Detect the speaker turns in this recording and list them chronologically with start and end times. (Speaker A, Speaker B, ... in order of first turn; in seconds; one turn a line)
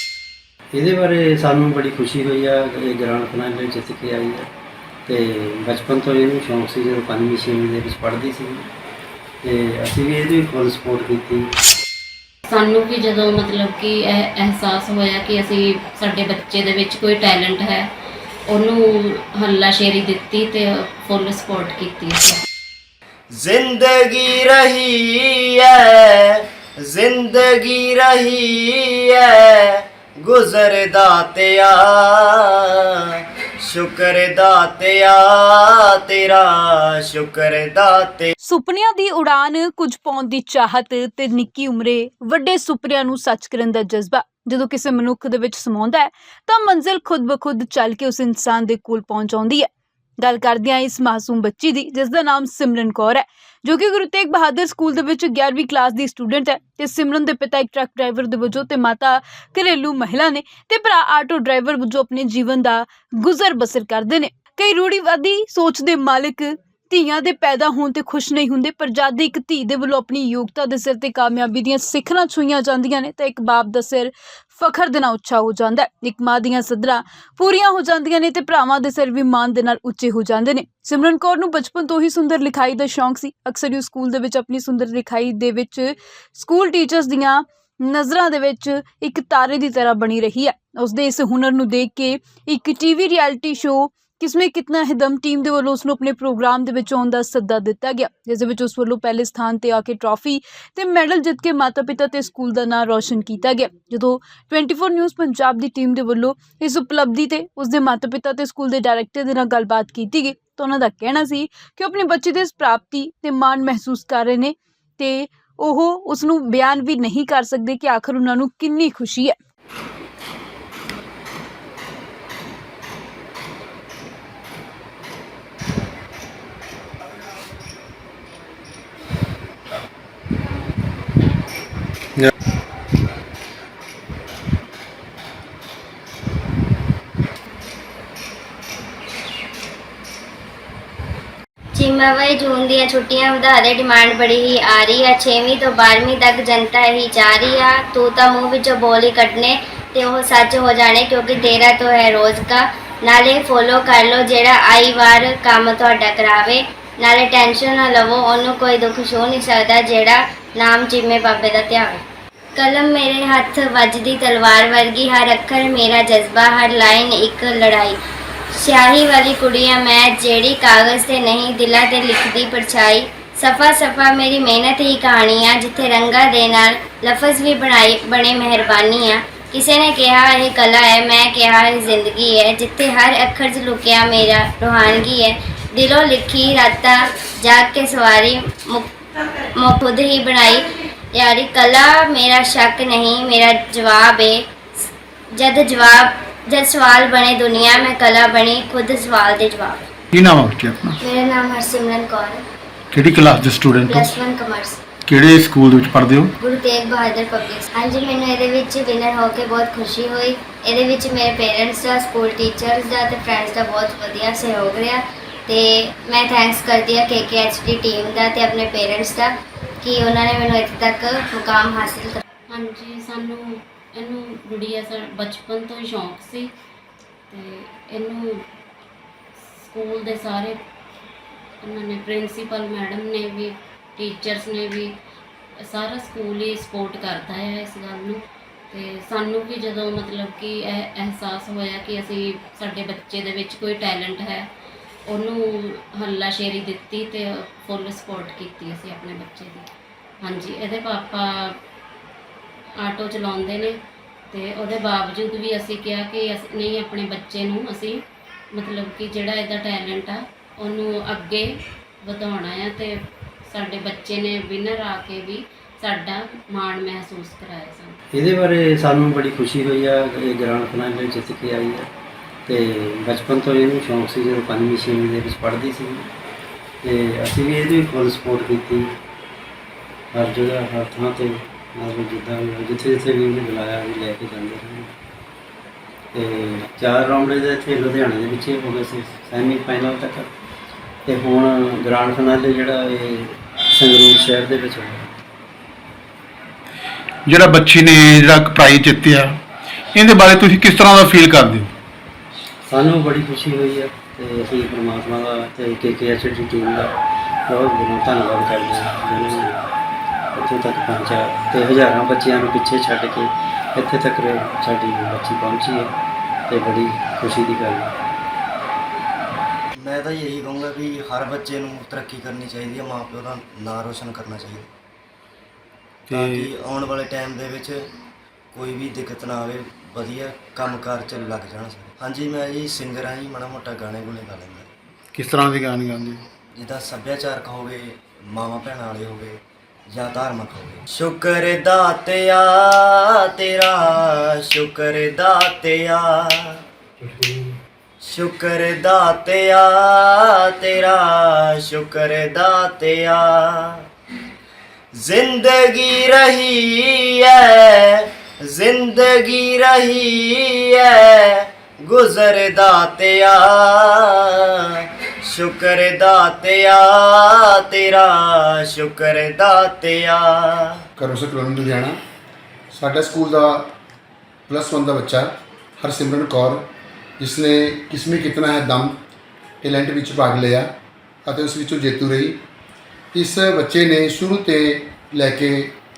Speaker A: 0.7-4.5
Speaker A: 5.1-8.7
Speaker A: 9.4-11.5
Speaker B: 12.5-17.9
Speaker B: 18.5-22.4
Speaker C: 23.3-32.7
Speaker C: 33.6-38.3
Speaker D: 38.4-49.7
Speaker D: 50.2-119.4
Speaker E: 141.8-162.0
Speaker E: 162.6-168.0
Speaker E: 168.5-188.9
Speaker E: 189.6-199.9
Speaker F: 200.1-201.0
Speaker E: 201.0-202.4
Speaker F: 202.9-203.9
Speaker E: 203.8-204.8
Speaker F: 205.1-206.3
Speaker E: 206.4-222.2
Speaker B: 222.5-226.5
Speaker B: 227.3-228.4
Speaker B: 229.6-230.6
Speaker B: 231.6-234.9
Speaker B: 235.6-244.5
Speaker B: 245.1-249.7
Speaker B: 250.2-251.6
Speaker B: 252.8-253.8
Speaker B: 254.3-258.0
Speaker B: 258.5-261.5
Speaker B: 262.0-268.0
Speaker A: 268.1-271.9
Speaker A: 272.5-276.1
Speaker A: 276.8-278.9
Speaker A: 280.1-284.9
Speaker A: 286.1-290.3
Speaker A: 291.1-295.1
Speaker F: 297.3-299.4
Speaker F: 299.9-301.7
Speaker A: 302.6-306.9
Speaker A: 307.5-309.7
Speaker A: 310.3-315.9
Speaker A: 316.5-317.9
Speaker C: 319.8-324.7
Speaker F: 326.1-326.4
Speaker C: 326.1-327.9
Speaker C: 328.5-334.7
Speaker F: 335.1-336.2
Speaker C: 336.6-346.6
Speaker A: 347.0-347.5
Speaker C: 348.0-353.8
Speaker C: 355.0-364.4
Speaker C: 365.2-370.8
Speaker G: 371.0-372.0
Speaker G: 372.7-373.8
Speaker G: 374.5-376.6
Speaker G: 377.2-379.0
Speaker G: 379.6-380.7
Speaker G: 381.3-382.4
Speaker G: 383.1-385.8